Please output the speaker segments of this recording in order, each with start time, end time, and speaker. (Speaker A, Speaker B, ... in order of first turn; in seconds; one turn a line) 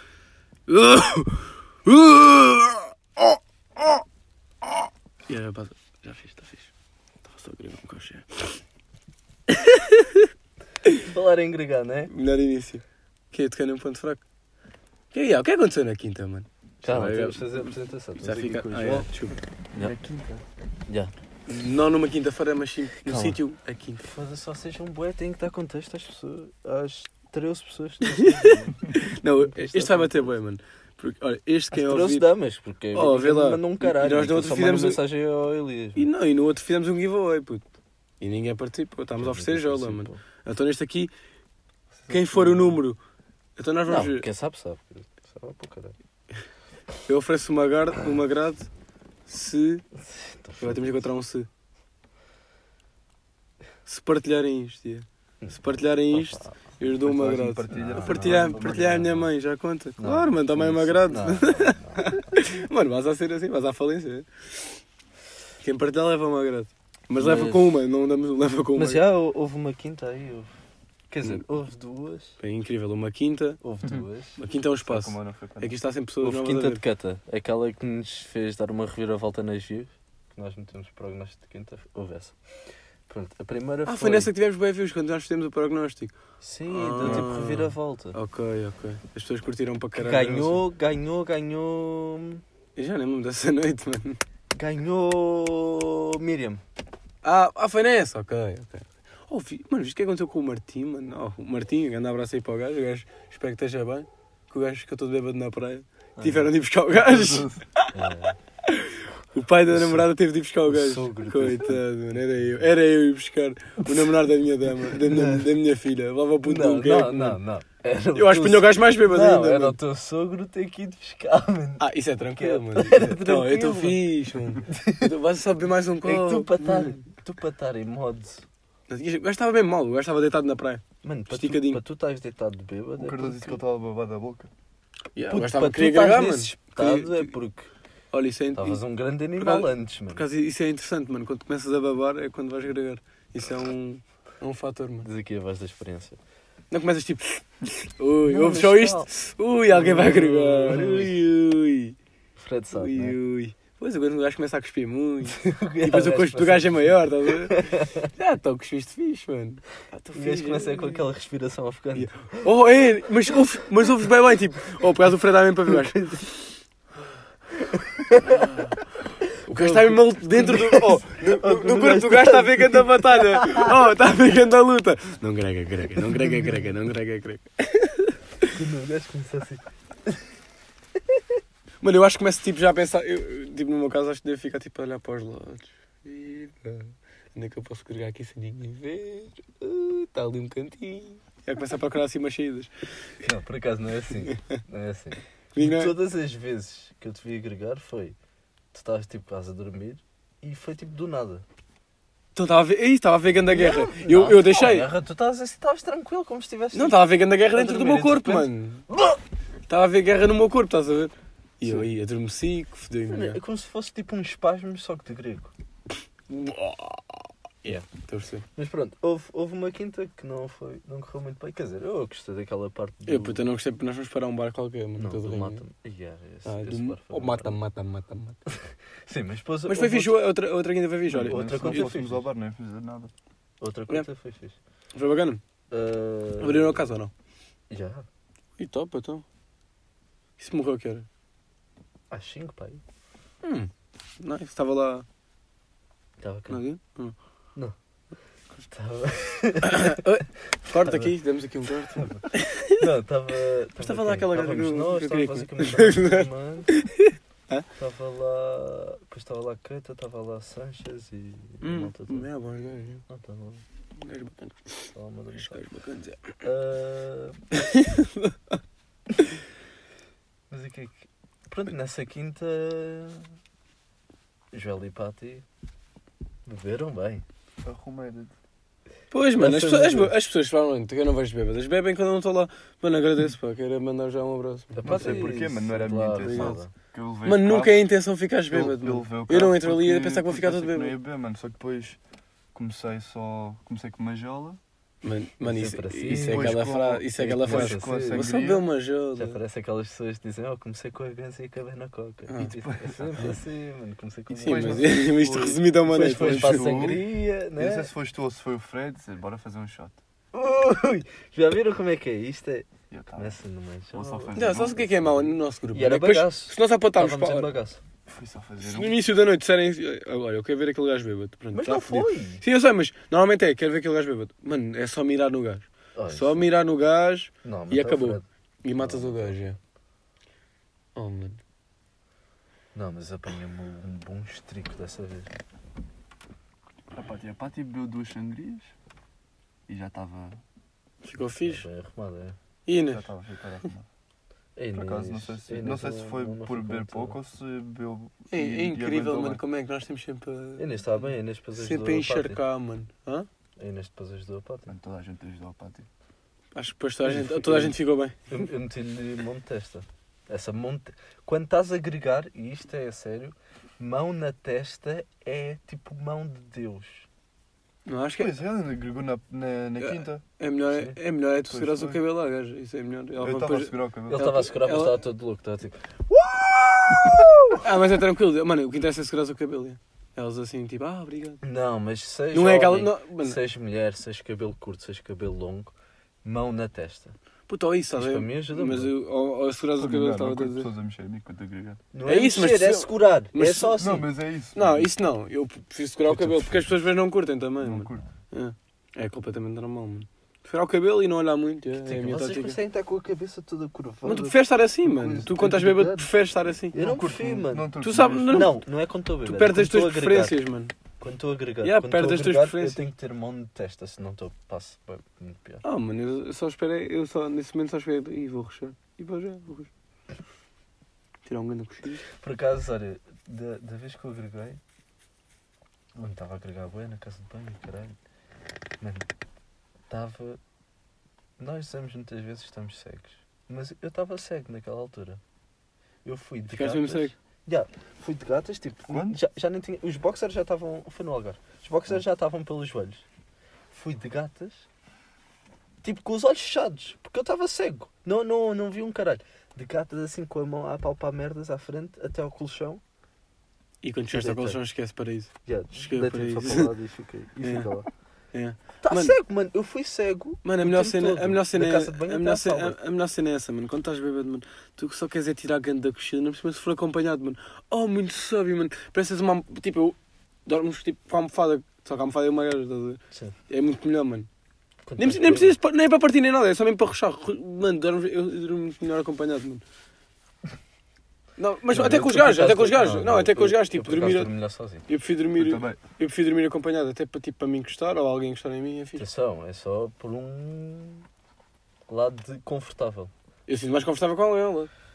Speaker A: 0.7-4.0
Speaker A: 5.3-6.7
Speaker A: 7.2-8.6
Speaker A: 9.5-10.3
Speaker B: 11.0-12.1
Speaker A: 12.1-14.2
Speaker A: 15.1-19.4
Speaker B: 16.8-19.1
Speaker C: 19.7-20.4
Speaker A: 21.5-24.1
Speaker B: 23.0-23.4
Speaker B: 24.0-30.3
Speaker A: 28.1-32.3
Speaker B: 31.7-36.1
Speaker A: 32.9-35.0
Speaker A: 36.0-37.6
Speaker A: 38.2-41.1
Speaker B: 39.1-40.2
Speaker A: 42.1-43.0
Speaker A: 43.6-44.2
Speaker B: 43.9-45.9
Speaker A: 47.0-48.7
Speaker A: 49.3-49.8
Speaker B: 49.9-51.0
Speaker A: 50.6-51.5
Speaker A: 53.9-64.8
Speaker B: 56.1-56.6
Speaker C: 56.8-59.1
Speaker B: 57.7-59.3
Speaker B: 60.0-62.4
Speaker A: 65.6-69.0
Speaker B: 67.2-67.8
Speaker B: 68.7-70.5
Speaker B: 71.1-72.4
Speaker A: 72.4-73.6
Speaker B: 73.6-74.4
Speaker A: 74.4-76.8
Speaker C: 74.8-75.8
Speaker B: 76.2-82.4
Speaker B: 83.1-84.3
Speaker A: 83.8-86.1
Speaker B: 86.4-88.2
Speaker A: 86.7-90.6
Speaker C: 87.0-87.3
Speaker B: 89.9-92.4
Speaker A: 92.8-94.2
Speaker B: 94.5-96.6
Speaker A: 97.2-107.9
Speaker C: 106.2-107.6
Speaker B: 107.9-108.4
Speaker A: 108.6-117.4
Speaker B: 109.7-110.1
Speaker B: 110.7-112.7
Speaker B: 113.8-114.1
Speaker B: 114.9-115.5
Speaker B: 116.4-124.0
Speaker A: 118.1-119.8
Speaker A: 121.8-127.0
Speaker B: 124.6-125.1
Speaker B: 126.0-128.4
Speaker A: 128.9-131.8
Speaker B: 131.0-133.6
Speaker C: 133.0-134.5
Speaker A: 135.1-137.3
Speaker B: 135.3-137.7
Speaker A: 138.1-138.8
Speaker B: 138.5-140.2
Speaker A: 139.4-145.1
Speaker B: 145.0-146.2
Speaker A: 146.7-152.0
Speaker B: 148.2-149.1
Speaker B: 149.7-151.2
Speaker B: 152.3-153.2
Speaker A: 152.8-161.0
Speaker B: 155.3-158.1
Speaker B: 160.1-162.5
Speaker A: 161.9-166.1
Speaker B: 165.7-166.3
Speaker B: 167.7-168.5
Speaker A: 168.2-168.9
Speaker A: 169.4-178.5
Speaker B: 169.5-173.7
Speaker B: 176.1-176.6
Speaker B: 178.5-180.2
Speaker A: 181.8-192.7
Speaker B: 193.2-198.2
Speaker A: 194.3-194.6
Speaker A: 195.5-195.9
Speaker B: 198.7-201.4
Speaker A: 202.3-204.9
Speaker B: 203.4-207.0
Speaker A: 206.7-208.8
Speaker B: 207.5-209.2
Speaker A: 209.7-213.4
Speaker B: 211.6-211.9
Speaker B: 213.1-215.5
Speaker A: 216.3-218.4
Speaker B: 218.5-223.4
Speaker A: 223.1-225.6
Speaker B: 224.9-227.6
Speaker A: 226.4-228.4
Speaker B: 228.5-230.1
Speaker A: 229.7-231.9
Speaker C: 231.1-233.1
Speaker B: 231.2-232.3
Speaker B: 233.6-234.6
Speaker A: 234.9-235.4
Speaker B: 235.7-236.9
Speaker A: 236.4-237.1
Speaker B: 237.7-238.1
Speaker A: 238.6-239.2
Speaker A: 240.4-241.1
Speaker B: 242.1-242.8
Speaker A: 243.4-245.0
Speaker B: 246.2-246.6
Speaker A: 246.5-247.2
Speaker B: 248.6-250.0
Speaker A: 249.6-252.8
Speaker B: 250.6-251.1
Speaker B: 251.9-256.7
Speaker A: 253.8-257.7
Speaker B: 257.8-262.3
Speaker A: 261.6-263.0
Speaker B: 263.1-263.6
Speaker A: 264.0-266.3
Speaker B: 264.9-265.6
Speaker B: 266.4-267.4
Speaker A: 267.6-268.5
Speaker B: 270.5-273.3
Speaker B: 274.5-275.4
Speaker B: 276.4-277.2
Speaker C: 277.6-278.3
Speaker A: 279.1-285.3
Speaker B: 279.4-280.1
Speaker B: 284.7-286.7
Speaker C: 284.8-287.9
Speaker A: 286.2-286.6
Speaker A: 287.2-290.9
Speaker C: 288.5-292.0
Speaker C: 292.5-294.6
Speaker A: 295.0-299.4
Speaker B: 295.4-296.6
Speaker C: 296.1-298.6
Speaker B: 297.2-298.2
Speaker B: 299.2-304.9
Speaker A: 302.3-302.5
Speaker C: 302.6-303.3
Speaker C: 304.3-310.0
Speaker A: 304.4-306.8
Speaker B: 305.9-307.9
Speaker B: 310.3-314.3
Speaker C: 312.9-313.3
Speaker C: 313.9-315.3
Speaker A: 314.3-317.5
Speaker B: 315.7-317.8
Speaker C: 318.1-318.9
Speaker A: 318.6-329.6
Speaker B: 321.5-322.4
Speaker B: 325.9-326.4
Speaker B: 327.4-328.2
Speaker B: 328.8-329.4
Speaker A: 330.9-331.4
Speaker B: 332.7-335.3
Speaker C: 336.9-338.7
Speaker C: 339.7-340.4
Speaker A: 341.0-341.6
Speaker B: 341.4-342.4
Speaker A: 342.7-343.0
Speaker C: 342.9-343.9
Speaker B: 344.6-347.2
Speaker C: 344.7-349.4
Speaker A: 348.3-350.8
Speaker B: 350.6-352.4
Speaker A: 351.5-353.3
Speaker B: 353.6-354.7
Speaker C: 354.7-355.9
Speaker A: 356.5-358.4
Speaker B: 357.0-367.1
Speaker A: 367.9-368.3
Speaker C: 368.2-370.2
Speaker A: 369.8-375.0
Speaker C: 371.5-372.0
Speaker C: 373.2-374.2
Speaker B: 374.1-377.6
Speaker A: 377.5-381.4
Speaker B: 381.4-387.1
Speaker A: 382.3-383.4
Speaker A: 387.5-390.7
Speaker B: 387.9-388.9
Speaker C: 389.8-391.8
Speaker B: 391.9-394.1
Speaker A: 392.1-393.8
Speaker C: 393.8-394.9
Speaker A: 394.5-402.6
Speaker C: 396.1-396.7
Speaker C: 397.6-398.1
Speaker B: 401.7-404.4
Speaker A: 404.0-406.8
Speaker B: 404.9-406.1
Speaker C: 405.0-405.6
Speaker B: 406.7-407.7
Speaker C: 406.7-408.5
Speaker A: 407.8-408.5
Speaker B: 408.3-410.4
Speaker A: 409.2-410.7
Speaker B: 411.0-415.6
Speaker A: 411.6-412.8
Speaker A: 415.6-419.7
Speaker A: 421.2-422.1
Speaker B: 422.1-424.6
Speaker B: 425.9-427.9
Speaker B: 428.8-429.1
Speaker B: 429.9-430.4
Speaker B: 431.4-435.2
Speaker B: 436.0-443.0
Speaker A: 436.5-437.1
Speaker C: 438.9-439.2
Speaker B: 443.7-444.6
Speaker B: 445.8-452.8
Speaker A: 453.8-456.7
Speaker B: 454.1-454.6
Speaker B: 455.4-457.9
Speaker A: 457.4-457.7
Speaker A: 458.3-459.1
Speaker B: 458.8-462.8
Speaker A: 460.4-474.3
Speaker B: 474.8-475.6
Speaker A: 475.0-479.6
Speaker A: 481.4-484.3
Speaker B: 481.7-484.8
Speaker A: 484.9-489.1
Speaker C: 485.3-485.8
Speaker B: 488.9-491.1
Speaker B: 491.9-493.1
Speaker A: 493.5-494.7